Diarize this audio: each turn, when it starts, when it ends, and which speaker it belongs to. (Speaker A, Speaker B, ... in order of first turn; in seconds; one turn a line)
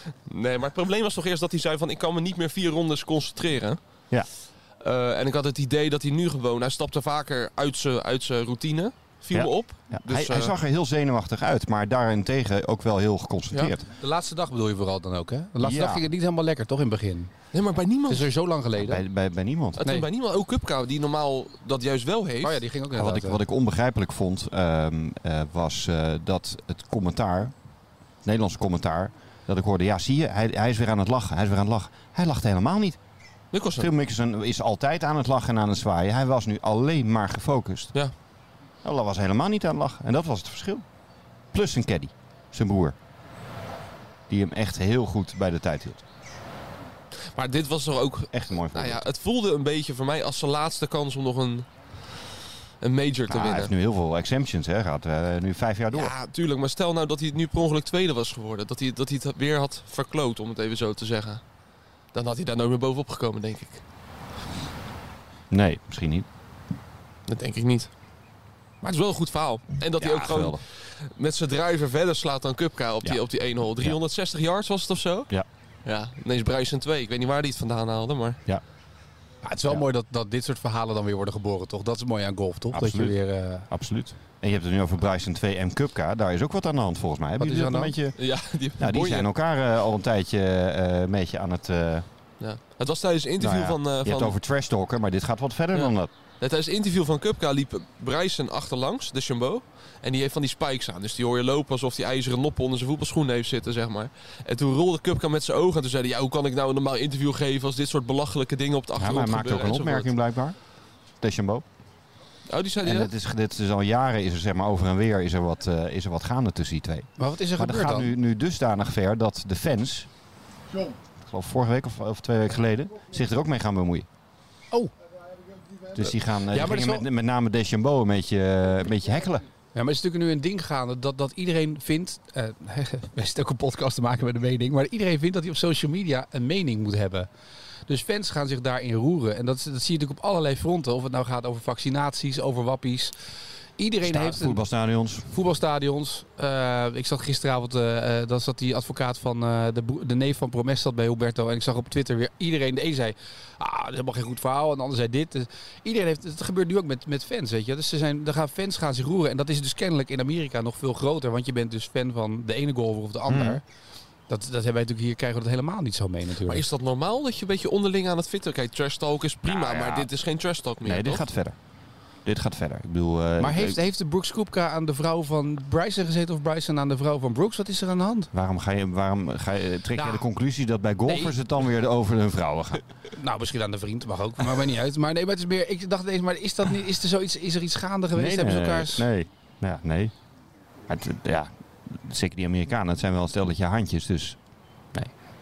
Speaker A: 0.2-10.5
Speaker B: 9.3-13.8
Speaker C: 14.0-17.4
Speaker B: 15.6-16.0
Speaker A: 17.5-18.3
Speaker C: 18.1-19.0
Speaker B: 18.8-19.8
Speaker A: 19.8-22.6
Speaker C: 22.4-23.4
Speaker B: 22.9-27.5
Speaker B: 28.2-33.0
Speaker A: 33.5-33.9
Speaker B: 33.8-37.9
Speaker B: 38.8-40.8
Speaker B: 41.5-43.0
Speaker B: 44.3-46.0
Speaker A: 47.2-51.7
Speaker B: 48.3-49.0
Speaker A: 52.8-53.7
Speaker B: 53.3-56.1
Speaker A: 55.9-61.4
Speaker A: 62.1-63.8
Speaker B: 65.5-66.2
Speaker A: 67.3-67.9
Speaker A: 68.8-75.3
Speaker B: 70.0-70.6
Speaker A: 75.8-78.4
Speaker C: 79.4-83.7
Speaker B: 82.7-92.0
Speaker C: 87.4-88.0
Speaker A: 88.2-89.3
Speaker A: 92.4-94.3
Speaker B: 93.4-96.1
Speaker A: 95.7-110.1
Speaker B: 109.0-110.6
Speaker B: 111.2-111.6
Speaker A: 112.5-113.1
Speaker B: 112.8-120.1
Speaker C: 117.2-118.1
Speaker B: 121.2-124.0
Speaker B: 125.9-129.4
Speaker C: 126.5-127.0
Speaker C: 129.7-137.3
Speaker C: 137.9-143.2
Speaker C: 143.8-144.6
Speaker B: 144.0-145.3
Speaker C: 145.3-163.6
Speaker B: 163.3-163.6
Speaker C: 164.3-166.6
Speaker A: 166.4-171.2
Speaker B: 169.4-170.1
Speaker B: 170.8-171.6
Speaker B: 172.2-173.8
Speaker C: 173.4-178.3
Speaker B: 178.3-182.8
Speaker C: 179.9-180.2
Speaker C: 181.1-181.3
Speaker C: 183.1-189.1
Speaker B: 188.1-190.1
Speaker B: 190.9-194.4